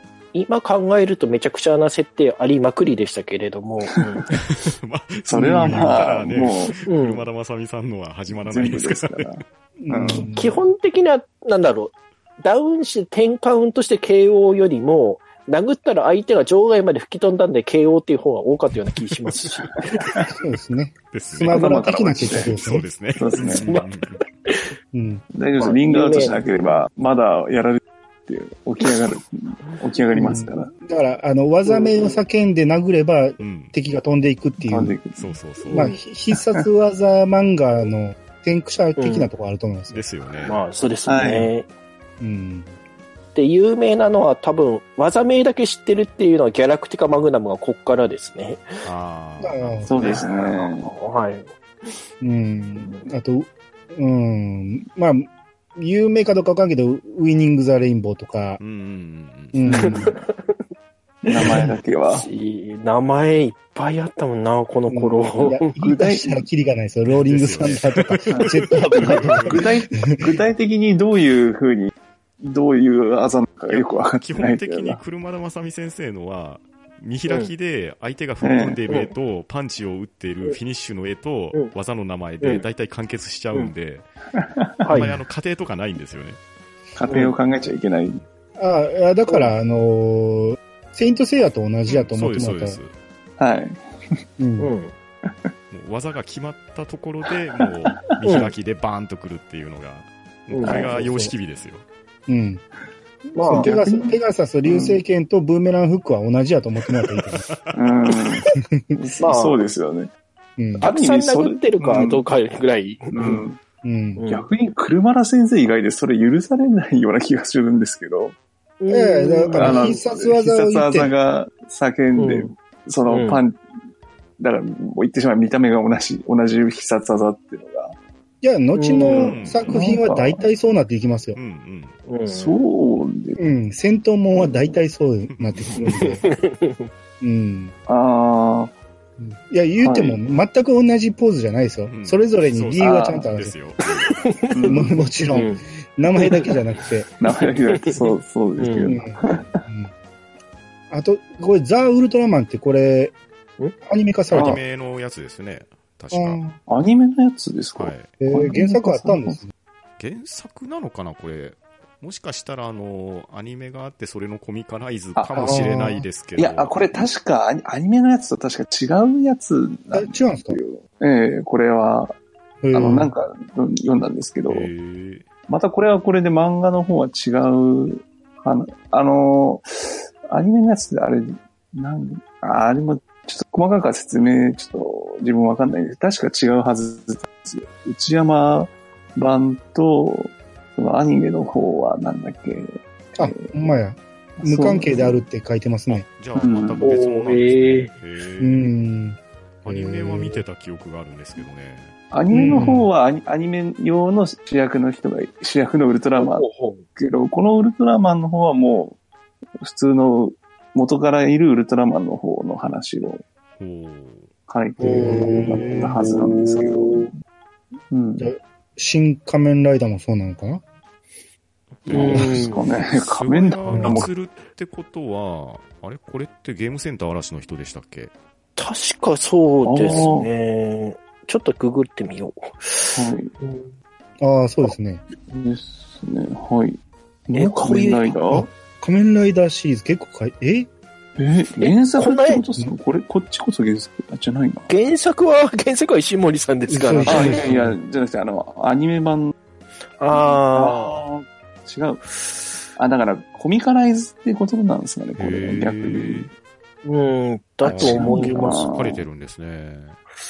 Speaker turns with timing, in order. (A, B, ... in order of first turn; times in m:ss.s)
0:00.3-0:04.3 A
0:04.3-0:09.4 B
0:05.3-0:06.7 C
0:05.4-0:06.0 D
0:06.9-0:07.3 A
0:08.3-0:10.3 C
0:09.8-0:10.6 D
0:10.1-0:20.1 A
0:19.8-0:20.3 C
0:20.4-0:22.9 D
0:21.1-0:21.7 B
0:21.5-0:22.6 C
0:22.3-0:24.2 B
0:23.1-0:23.7 C
0:23.6-0:23.9 A
0:24.9-0:25.2 D
0:25.3-0:30.7 C
0:25.6-0:26.5 A
0:30.1-0:35.0 D
0:31.6-0:32.1 A
0:33.4-0:33.7 B
0:34.6-0:35.4 C
0:35.2-0:35.9 B
0:35.7-0:36.0 A
0:35.7-0:40.0 D
0:36.3-0:36.6 C
0:39.0-0:39.3 A
0:39.9-0:40.6 B
0:40.4-0:41.7 A
0:41.1-0:41.5 C
0:42.2-0:42.7 D
0:43.3-0:48.8 A
0:48.8-0:50.3 B
0:49.4-0:50.2 D
0:49.9-0:50.9 C
0:50.0-0:51.9 A
0:52.2-0:58.6 D
0:52.8-0:53.1 A
0:58.6-0:59.9 B
0:59.5-1:00.1 D
0:59.7-1:00.6 A
1:01.2-1:02.2 C
1:01.4-1:05.7 A
1:04.9-1:10.3 D
1:05.8-1:06.4 C
1:07.1-1:09.6 B
1:08.3-1:15.0 C
1:13.7-1:24.0 B
1:18.4-1:18.8 C
1:18.9-1:19.1 A
1:24.4-1:24.7 C
1:24.8-1:25.2 A
1:24.9-1:26.4 B
1:27.0-1:28.2 C
1:27.1-1:27.3 A
1:28.6-1:32.8 D
1:31.9-1:32.9 B
1:33.4-1:33.8 C
1:34.4-1:34.7 D
1:34.6-1:34.9 A
1:35.7-1:41.8 B
1:38.2-1:38.5 A
1:40.5-1:41.3 A
1:40.6-1:41.0 C
1:42.3-1:42.6 D
1:43.3-1:47.4 D
1:43.4-1:43.7 A
1:43.5-1:45.0 C
1:47.3-1:47.8 B
1:47.7-1:50.1 C
1:49.2-1:49.6 A
1:50.6-1:50.9 D
1:50.8-1:53.4 A
1:50.8-1:52.2 C
1:53.1-1:53.6 C
1:53.8-1:54.2 D
1:54.2-1:54.5 A
1:54.3-1:58.4 C
1:58.8-2:00.0 A
1:58.9-2:01.1 D
1:59.5-2:03.6 C
2:02.2-2:02.6 A
2:03.1-2:03.4 A
2:04.4-2:08.0 C
2:08.4-2:11.4 D
2:08.7-2:09.4 A
2:09.1-2:09.7 B
2:09.6-2:10.4 C
2:11.3-2:12.0 B
2:12.1-2:12.6 A
2:12.2-2:13.4 C
2:13.4-2:16.2 D
2:15.3-2:16.2 B
2:15.9-2:16.9 A
2:17.2-2:17.7 D
2:17.9-2:18.7 C
2:19.2-2:23.6 D
2:19.8-2:20.2 C
2:21.8-2:24.2 B
2:22.8-2:23.3 C
2:24.0-2:24.8 A
2:24.5-2:25.0 C
2:24.6-2:27.1 D
2:25.3-2:25.6 A
2:26.1-2:26.5 A
2:27.2-2:29.6 C
2:27.7-2:28.0 A
2:28.6-2:29.0 A
2:28.8-2:29.9 D
2:30.9-2:33.1 D
2:33.8-2:34.6 D
2:34.3-2:36.4 B
2:34.3-2:34.6 C
2:36.1-2:36.6 D
2:36.7-2:39.4 C
2:37.8-2:38.1 B
2:38.2-2:39.5 D
2:40.0-2:47.0 B
2:45.2-2:45.6 C
2:45.4-2:46.0 D
2:46.4-2:52.2 C
2:49.9-2:50.6 D
2:52.6-2:53.1 D
2:52.7-2:54.7 C
2:54.5-2:55.2 B
2:55.5-3:13.5 C
3:13.2-3:16.0 D
3:14.4-3:15.2 C
3:15.9-3:18.7 B
3:16.4-3:16.9 C
3:16.8-3:17.9 A
3:18.4-3:20.4 D
3:19.6-3:21.9 B
3:22.1-3:29.0 C
3:22.3-3:22.9 D
3:26.2-3:26.9 A
3:29.6-3:33.2 C
3:33.6-3:34.3 B
3:34.5-3:37.1 C
3:34.8-3:37.1 A
3:34.8-3:36.0 D
3:37.9-3:38.3 C
3:38.2-3:40.6 D
3:41.9-3:44.1 C
3:41.9-3:48.1 B
3:41.9-3:42.6 A
3:43.7-3:44.1 D
3:48.6-3:53.7 A
3:49.6-3:50.3 C
3:52.9-3:53.3 C
3:54.2-3:55.0 D
3:55.3-3:56.8 C
3:57.3-3:58.5 C
3:57.3-3:58.2 A
3:58.3-4:00.7 D
4:01.2-4:04.7 C
4:01.6-4:02.4 A
4:04.7-4:07.5 A
4:06.7-4:07.8 D
4:07.1-4:09.3 C
4:10.0-4:11.0 A
4:10.1-4:12.0 C
4:12.8-4:16.3 C
4:15.2-4:16.3 B
4:16.8-4:18.7 A
4:17.6-4:20.0 B
4:17.7-4:19.0 C